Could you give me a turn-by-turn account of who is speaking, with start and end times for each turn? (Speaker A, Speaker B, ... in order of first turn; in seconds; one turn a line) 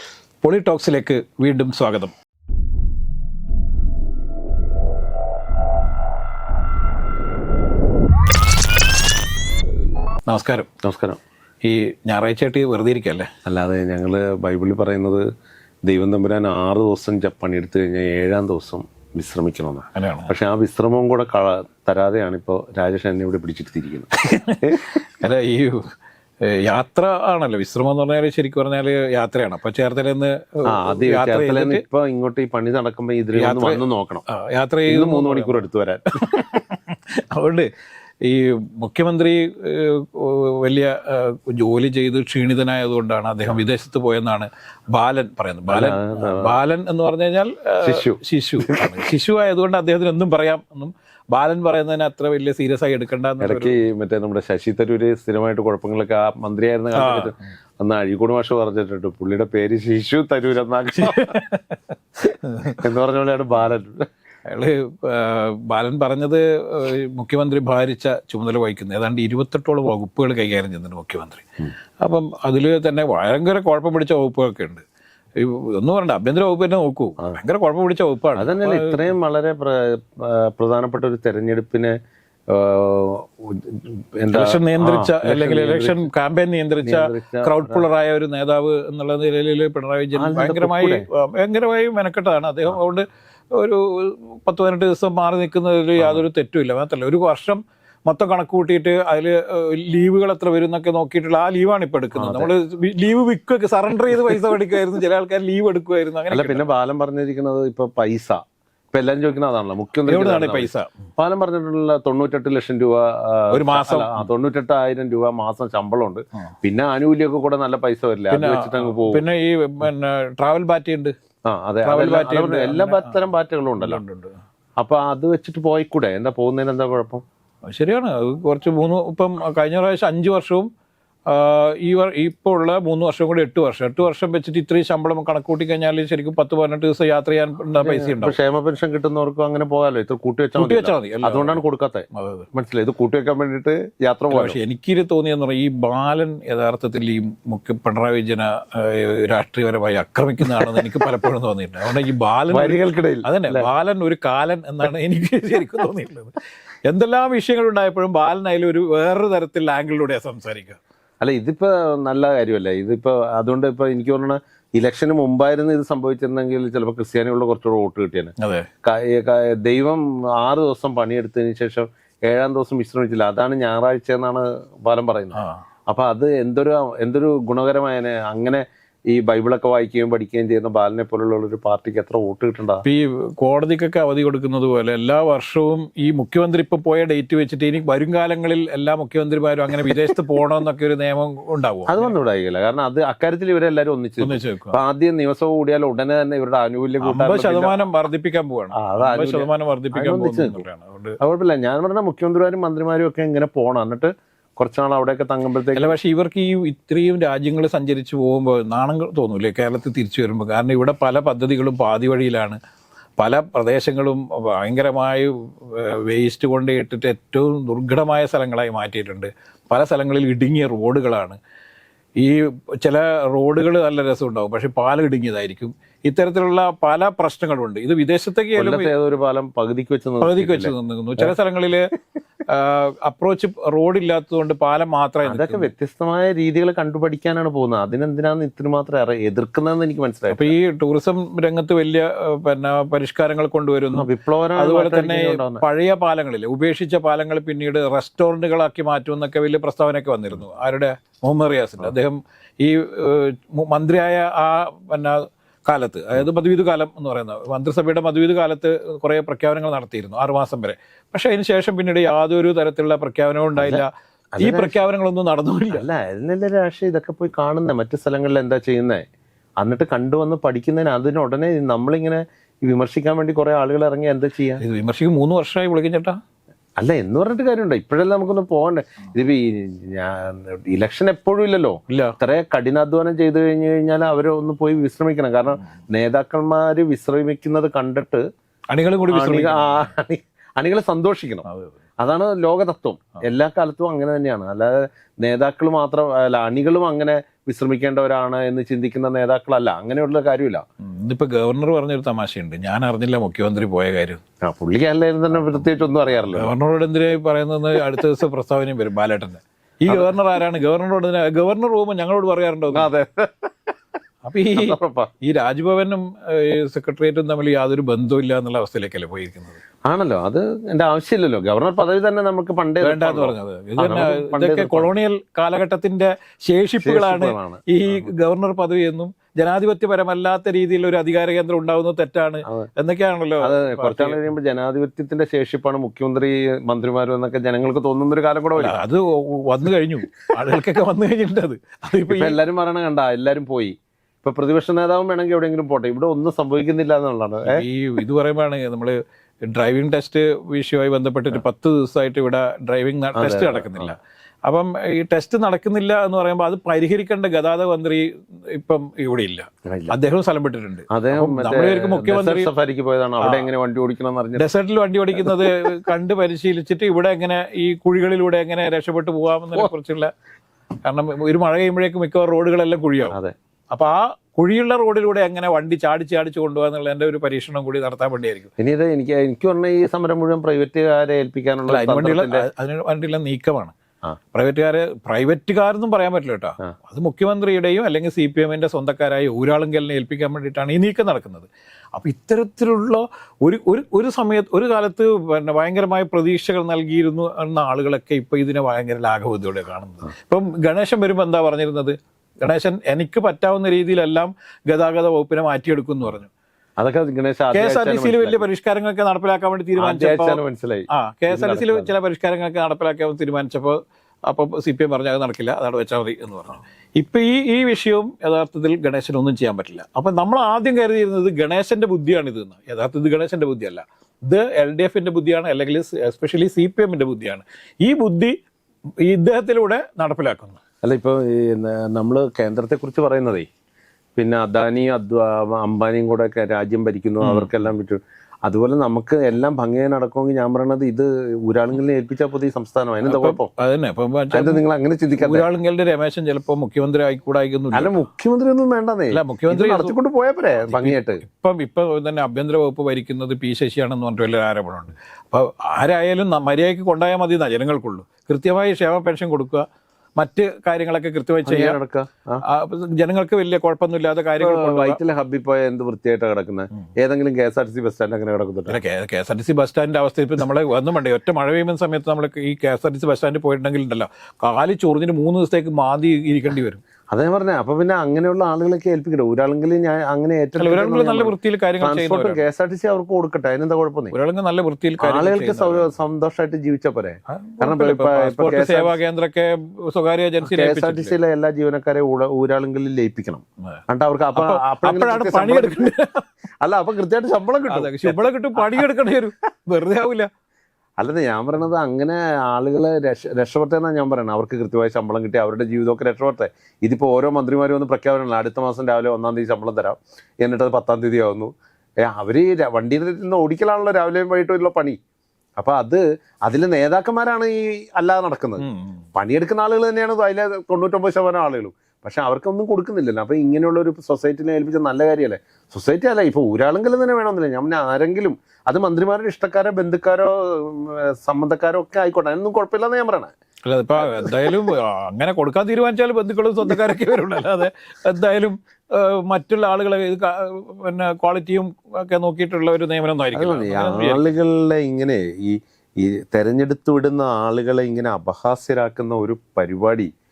Speaker A: 0.4-2.1
Speaker A: 10.3-10.7
Speaker B: 10.8-11.2
Speaker A: 11.6-13.3
Speaker B: 13.5-15.2
Speaker B: 15.8-24.1
Speaker A: 19.9-20.3
Speaker A: 24.2-25.8
Speaker B: 24.6-25.0
Speaker A: 26.4-31.8
Speaker B: 30.7-34.2
Speaker A: 33.3-35.6
Speaker B: 34.9-36.4
Speaker A: 36.2-37.7
Speaker A: 38.2-53.7
Speaker B: 45.7-46.6
Speaker B: 47.8-48.9
Speaker B: 53.4-61.3
Speaker A: 57.0-57.3
Speaker A: 61.0-62.8
Speaker B: 62.8-64.1
Speaker A: 64.5-71.5
Speaker A: 72.0-74.8
Speaker A: 75.4-79.1
Speaker B: 78.4-82.0
Speaker B: 82.5-86.0
Speaker A: 84.3-106.7
Speaker B: 86.8-87.8
Speaker B: 90.2-91.1
Speaker B: 96.0-96.2
Speaker B: 102.2-102.5
Speaker B: 106.3-108.4
Speaker B: 108.9-119.2
Speaker A: 110.1-111.0
Speaker A: 113.5-114.2
Speaker A: 118.3-121.2
Speaker B: 121.5-124.0
Speaker A: 121.8-123.2
Speaker A: 123.8-124.4
Speaker B: 124.8-127.2
Speaker A: 127.7-130.7
Speaker A: 131.3-138.4
Speaker B: 137.8-144.6
Speaker A: 140.6-141.6
Speaker A: 142.1-142.5
Speaker A: 144.3-156.3
Speaker B: 150.5-151.1
Speaker B: 152.5-153.7
Speaker A: 156.9-160.8
Speaker B: 161.2-168.3
Speaker A: 168.4-168.7
Speaker B: 168.8-182.8
Speaker A: 175.4-175.6
Speaker A: 182.8-192.1
Speaker B: 191.9-197.8
Speaker A: 194.2-194.8
Speaker A: 197.0-201.2
Speaker B: 198.7-200.7
Speaker B: 201.2-205.9
Speaker A: 205.8-212.6
Speaker A: 213.2-221.4
Speaker A: 222.2-228.9
Speaker B: 228.6-231.3
Speaker A: 230.2-231.9
Speaker A: 232.5-235.7
Speaker B: 235.2-240.5
Speaker A: 240.3-265.9
Speaker B: 243.9-245.6
Speaker B: 263.6-263.8
Speaker B: 264.4-264.8
Speaker B: 265.7-269.0
Speaker B: 269.6-274.6
Speaker A: 274.6-276.2
Speaker B: 276.8-288.2
Speaker A: 281.9-282.1
Speaker A: 288.7-289.9
Speaker B: 289.1-291.4
Speaker A: 291.5-291.7
Speaker B: 292.0-300.6
Speaker A: 300.8-304.2
Speaker B: 304.4-306.5
Speaker A: 306.4-312.9
Speaker B: 309.9-310.2
Speaker B: 312.7-313.6
Speaker A: 314.2-319.6
Speaker B: 314.5-315.1
Speaker B: 319.9-324.9
Speaker A: 322.8-334.2
Speaker B: 326.8-328.1
Speaker B: 333.4-338.8
Speaker A: 338.6-342.4
Speaker B: 342.1-347.6
Speaker A: 347.5-362.5
Speaker B: 353.2-353.9
Speaker B: 359.6-360.0
Speaker B: 360.9-364.5
Speaker A: 363.2-363.5
Speaker A: 364.4-370.1
Speaker B: 365.1-365.5
Speaker A: 370.8-373.2
Speaker B: 373.1-373.3
Speaker A: 373.7-378.5
Speaker B: 378.6-382.5
Speaker A: 381.7-383.7
Speaker A: 384.3-406.3
Speaker B: 406.8-408.5
Speaker A: 407.5-410.4
Speaker B: 409.8-411.9
Speaker A: 410.9-428.4
Speaker A: 429.0-430.6
Speaker B: 430.8-433.5
Speaker B: 434.2-443.5
Speaker A: 437.2-437.5
Speaker A: 443.0-444.6
Speaker B: 444.3-445.5
Speaker A: 445.2-448.0
Speaker B: 447.7-451.2
Speaker A: 449.1-449.9
Speaker A: 450.7-459.7
Speaker A: 460.2-461.8
Speaker B: 461.5-462.4
Speaker A: 462.4-465.0
Speaker B: 464.4-468.8
Speaker A: 468.7-476.8
Speaker B: 477.1-484.1
Speaker A: 480.6-482.4
Speaker A: 484.1-485.9
Speaker B: 485.0-489.0
Speaker A: 487.3-491.1
Speaker B: 490.4-495.9
Speaker A: 494.4-496.2
Speaker B: 496.6-498.9
Speaker A: 497.7-500.3
Speaker B: 501.0-511.5
Speaker B: 512.0-515.0
Speaker B: 515.6-533.3
Speaker A: 518.6-519.0
Speaker A: 533.7-544.4
Speaker B: 534.0-534.6
Speaker B: 543.3-550.1